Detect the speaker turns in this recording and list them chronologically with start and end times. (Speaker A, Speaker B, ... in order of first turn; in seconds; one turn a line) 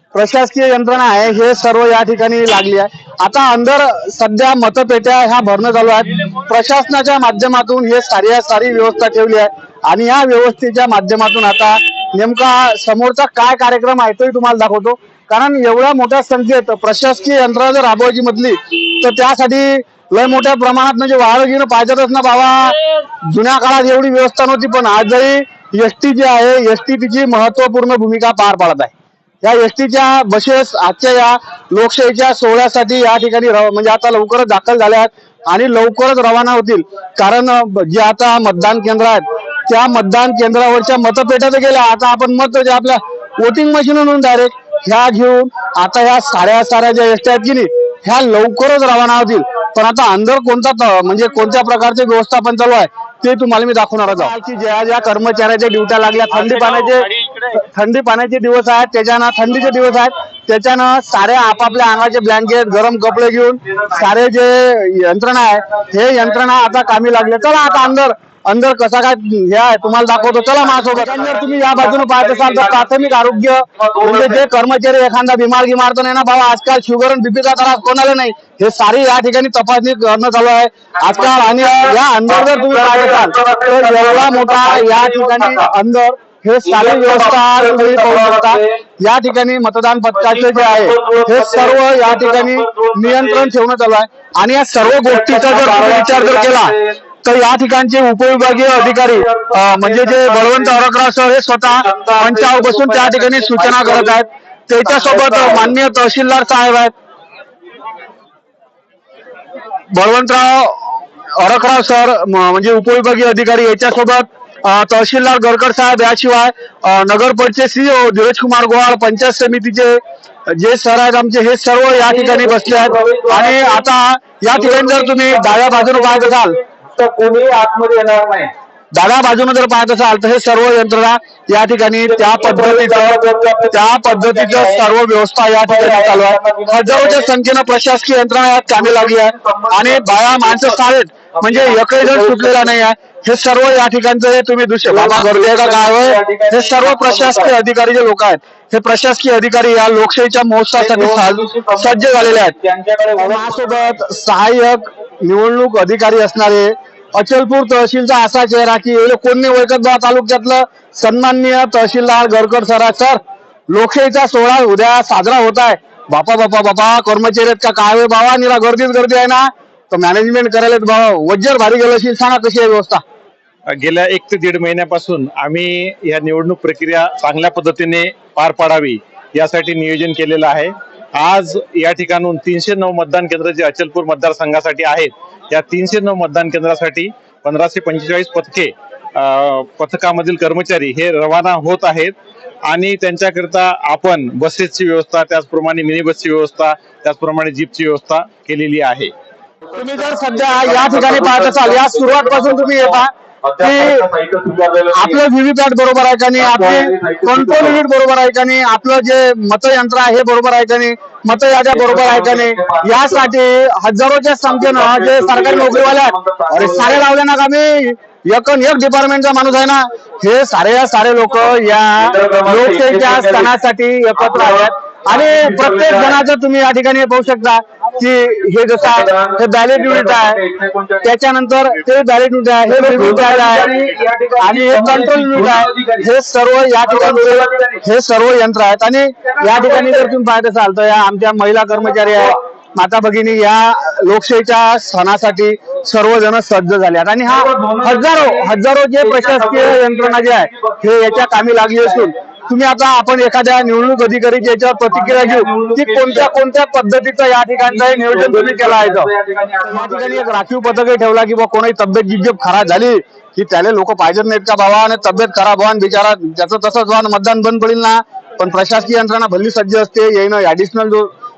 Speaker A: 0.1-106.9
Speaker B: 56.3-57.5
Speaker B: 63.7-64.0
Speaker B: 66.3-67.9
Speaker B: 70.1-74.4
Speaker B: 81.0-85.7
Speaker B: 86.6-88.8
Speaker B: 90.1-93.5
Speaker B: 94.8-97.0
Speaker B: 98.3-100.8
Speaker B: 101.7-104.2
Speaker B: 104.8-105.7
Speaker A: 109.9-126.6
Speaker B: 122.0-123.8
Speaker B: 124.5-128.5
Speaker A: 128.9-152.6
Speaker B: 132.0-134.8
Speaker B: 135.7-137.3
Speaker B: 138.7-140.7
Speaker B: 141.4-142.7
Speaker B: 144.8-147.5
Speaker B: 150.8-153.6
Speaker A: 153.2-163.2
Speaker A: 163.7-173.0
Speaker C: 173.7-192.1
Speaker C: 192.7-199.1
Speaker A: 199.7-204.0
Speaker B: 200.2-205.2
Speaker A: 204.9-230.4
Speaker B: 206.4-207.8
Speaker B: 211.7-213.3
Speaker B: 214.4-217.0
Speaker B: 222.0-223.5
Speaker B: 224.2-226.2
Speaker B: 228.8-231.1
Speaker A: 231.0-233.7
Speaker B: 232.7-236.0
Speaker A: 234.4-259.1
Speaker B: 236.8-237.8
Speaker B: 239.4-240.0
Speaker B: 247.3-252.1
Speaker B: 254.9-256.3
Speaker B: 257.6-260.3
Speaker A: 259.6-271.1